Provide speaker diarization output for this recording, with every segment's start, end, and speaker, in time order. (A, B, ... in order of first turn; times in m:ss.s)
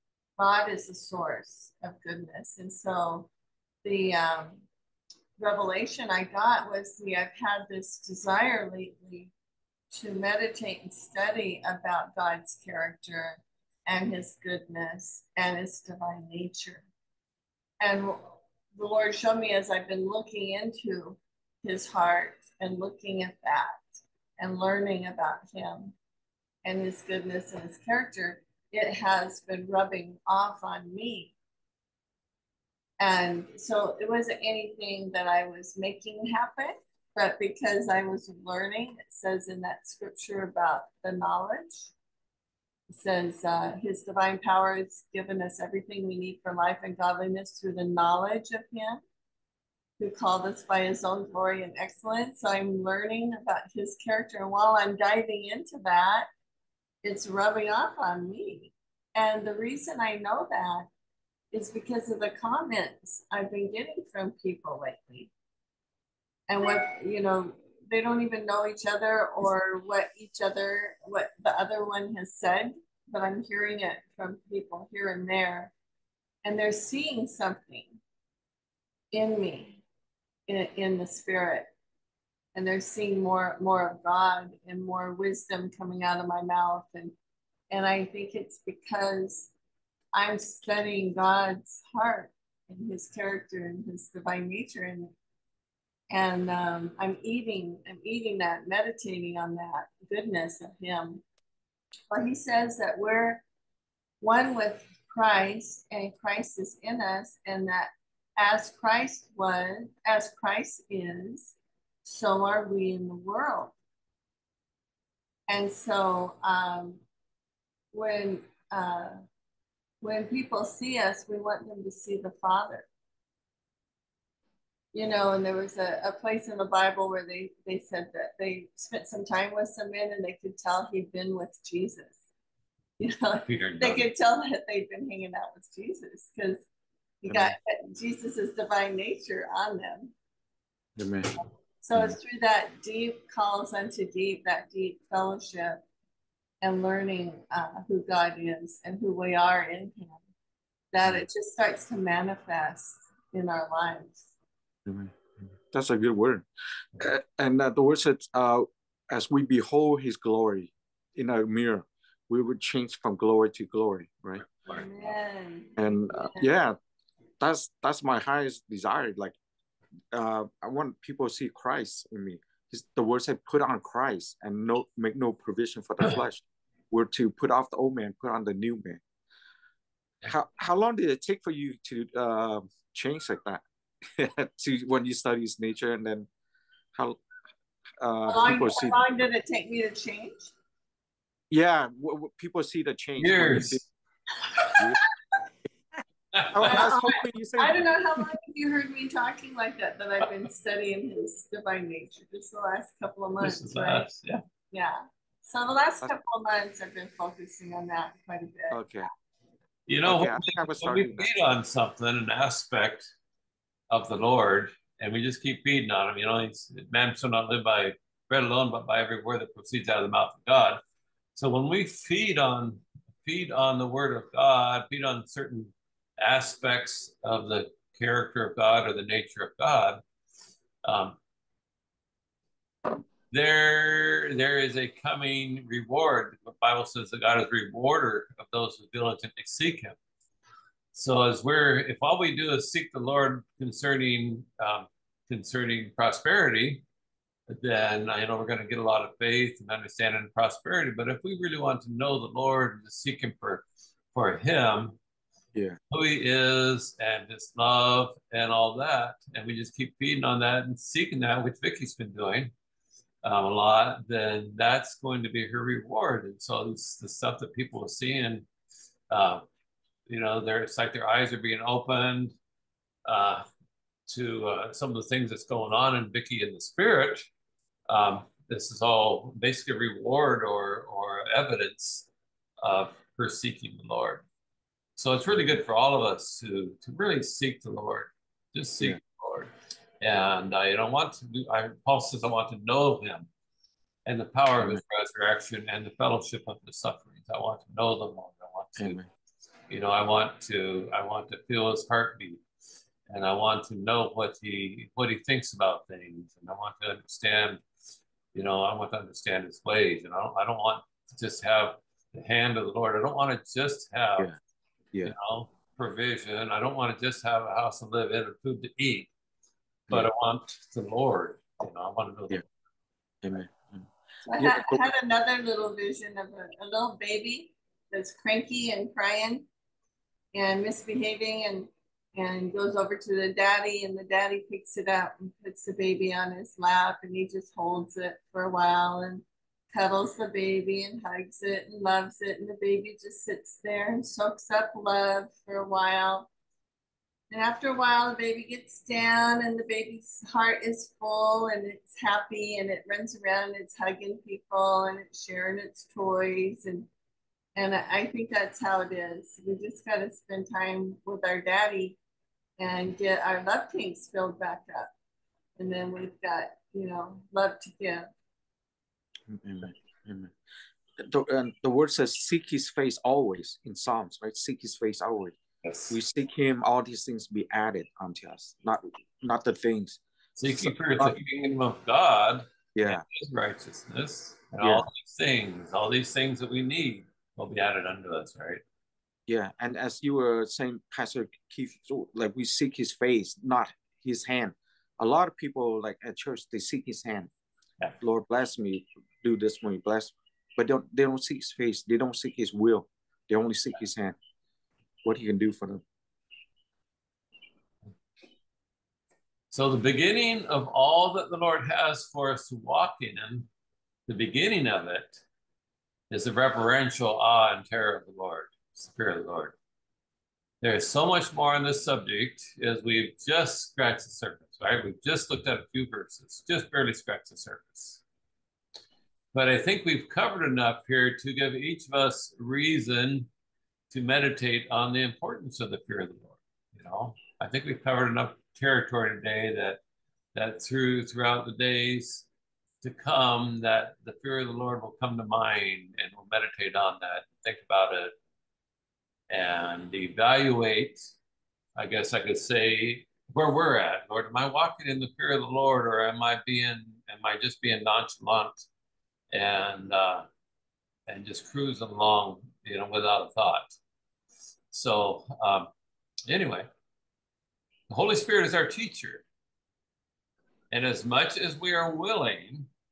0:00.4-0:03.3 A
0:03.8-0:04.6 A
0:05.4-0:09.3 A
0:09.9-0:16.9 A
0:17.8-0:23.8 A
0:24.4-0:25.9 A
0:26.6-0:31.3 A
0:33.0-0:41.9 A
0:42.9-0:49.0 A
0:50.0-0:56.3 A
0:57.0-1:00.9 A
1:01.5-1:05.3 A
1:06.5-1:15.7 A
1:16.4-1:18.0 A
1:19.1-1:19.8 A
1:20.5-1:21.7 A
1:22.5-1:27.1 A
1:27.7-1:29.5 A
1:30.1-1:35.1 A
1:36.1-1:41.2 A
1:42.1-1:43.4 A
1:44.2-1:53.7 A
1:55.5-1:57.0 A
1:57.9-1:59.2 A
2:00.0-2:02.9 A
2:04.9-2:12.3 A
2:13.0-2:16.7 A
2:13.4-2:14.1 B
2:17.2-2:20.1 A
2:17.2-2:17.5 C
2:21.0-2:21.3 C
2:21.8-2:25.8 A
2:26.6-2:30.2 A
2:30.9-2:34.3 A
2:34.8-2:35.1 C
2:35.7-2:36.4 C
2:37.0-2:44.4 C
2:44.4-2:44.8 B
2:44.7-2:46.5 A
2:45.8-2:46.8 C
2:47.4-2:49.3 C
2:50.1-2:59.0 C
3:00.3-3:03.6 C
3:04.2-3:06.3 C
3:06.9-3:07.2 C
3:08.0-3:09.0 C
3:08.3-3:10.5 A
3:11.5-3:13.9 C
3:13.2-3:13.8 B
3:14.7-3:15.0 C
3:16.3-3:16.9 B
3:16.5-3:17.8 C
3:16.6-3:24.1 A
3:23.4-3:24.4 B
3:24.7-3:28.9 A
3:28.7-3:29.1 C
3:29.9-3:33.1 B
3:30.0-3:31.3 C
3:33.9-3:40.8 B
3:41.3-3:50.0 B
3:50.8-3:51.2 B
3:53.3-4:00.0 B
4:00.9-4:06.8 B
4:07.5-4:15.0 B
4:15.9-4:22.5 B
4:23.2-4:28.5 B
4:29.1-4:29.4 B
4:30.1-4:32.4 B
4:33.0-4:33.4 B
4:34.1-4:37.3 B
4:37.9-4:42.1 B
4:42.6-4:44.2 B
4:45.0-4:53.3 B
4:54.0-4:59.0 B
4:58.8-4:59.1 C
4:59.7-5:02.4 B
5:03.1-5:07.6 B
5:08.3-5:14.3 B
5:15.0-5:19.1 B
5:19.9-5:22.4 B
5:23.2-5:24.9 C
5:24.2-5:29.5 A
5:30.3-5:46.3 A
5:47.3-5:56.9 A
5:57.6-6:02.0 A
6:02.6-6:04.9 A
6:05.6-6:08.1 A
6:09.3-6:10.3 C
6:11.0-6:15.4 C
6:15.6-6:16.0 B
6:15.9-6:21.2 C
6:20.4-6:28.6 B
6:22.7-6:23.0 C
6:24.6-6:24.9 C
6:29.3-6:37.3 C
6:38.0-6:44.2 C
6:45.0-6:45.8 C
6:49.5-6:53.5 B
6:54.1-6:55.2 B
6:56.1-6:59.6 B
7:00.6-7:08.0 B
7:09.3-7:13.3 B
7:13.9-7:19.8 B
7:20.3-7:22.3 B
7:22.8-7:28.1 B
7:29.3-7:31.1 B
7:31.8-7:38.7 B
7:39.3-7:40.2 B
7:41.1-7:43.8 B
7:44.7-7:45.7 B
7:46.3-7:46.7 B
7:47.9-7:49.2 B
7:50.7-7:52.7 B